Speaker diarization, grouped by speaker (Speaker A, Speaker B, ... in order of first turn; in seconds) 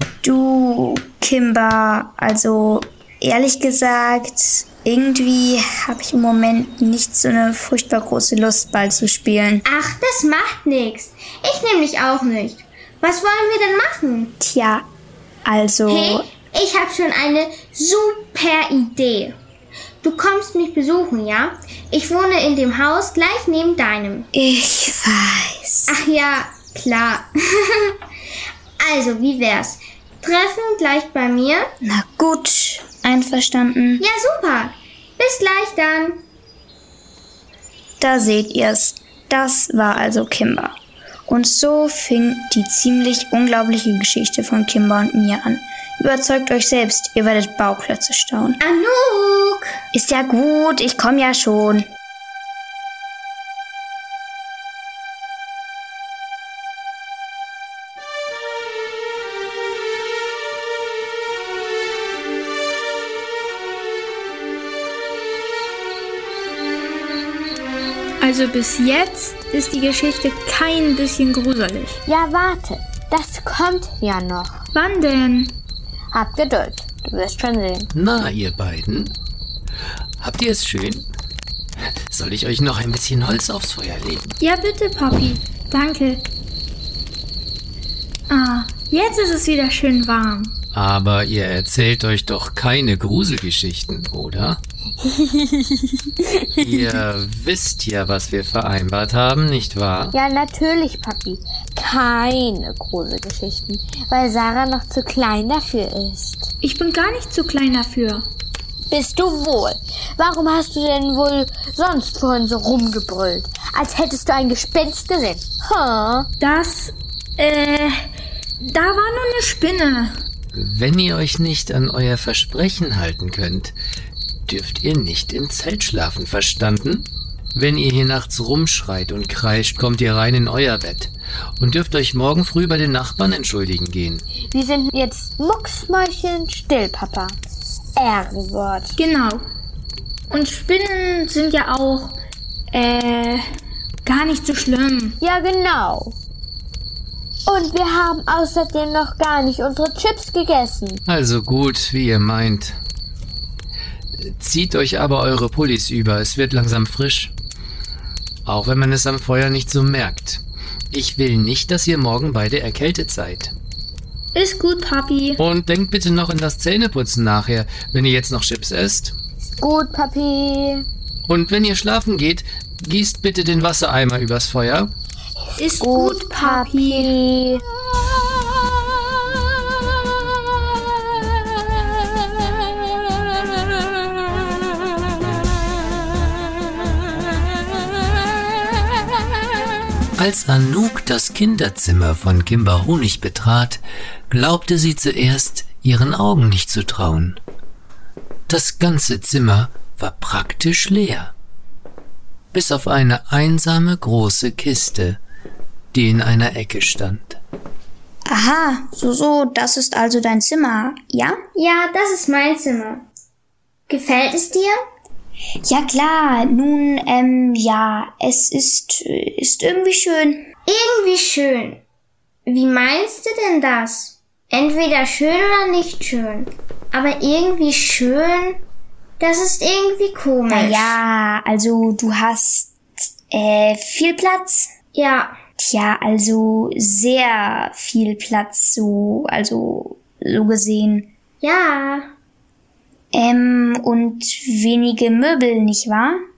Speaker A: 0.2-9.6, 14.4-14.8, 15.4-16.3, 24.3-25.9, 31.8-34.0, 38.0-48.6, 49.9-51.9, 208.3-211.4, 215.6-220.5, 230.5-232.8, 233.3-234.7, 235.6-241.1, 243.1-246.2
Speaker B: 9.6-14.3, 15.9-19.4, 20.0-24.3, 25.9-27.9, 28.8-31.7, 34.0-36.2, 48.6-49.8, 211.5-213.0, 213.9-214.8, 220.7-221.8, 222.5-228.6, 229.2-231.0, 234.9-235.4, 241.4-242.1
Speaker C: 68.2-72.0, 74.7-75.6, 84.4-86.2, 88.3-90.5, 106.6-108.2, 116.4-118.0, 118.6-120.1, 139.0-139.4, 140.3-142.2, 142.7-143.4, 144.0-145.2, 164.3-165.4, 175.6-177.1
Speaker D: 72.1-74.6, 76.1-77.9, 95.0-95.8, 100.1-106.5, 108.9-116.3, 134.5-137.4, 137.9-138.9, 145.2-146.1, 147.5-151.0, 169.4-170.8, 175.8-177.6
Speaker E: 77.9-79.1, 80.2-81.1, 82.1-84.3, 90.7-94.6, 96.5-100.1, 120.5-123.7, 124.5-134.2, 151.1-152.8, 154.2-157.3, 158.4-163.5, 165.4-169.1, 171.3-174.9, 190.2-197.4, 198.5-201.3, 202.5-205.2, 205.9-207.4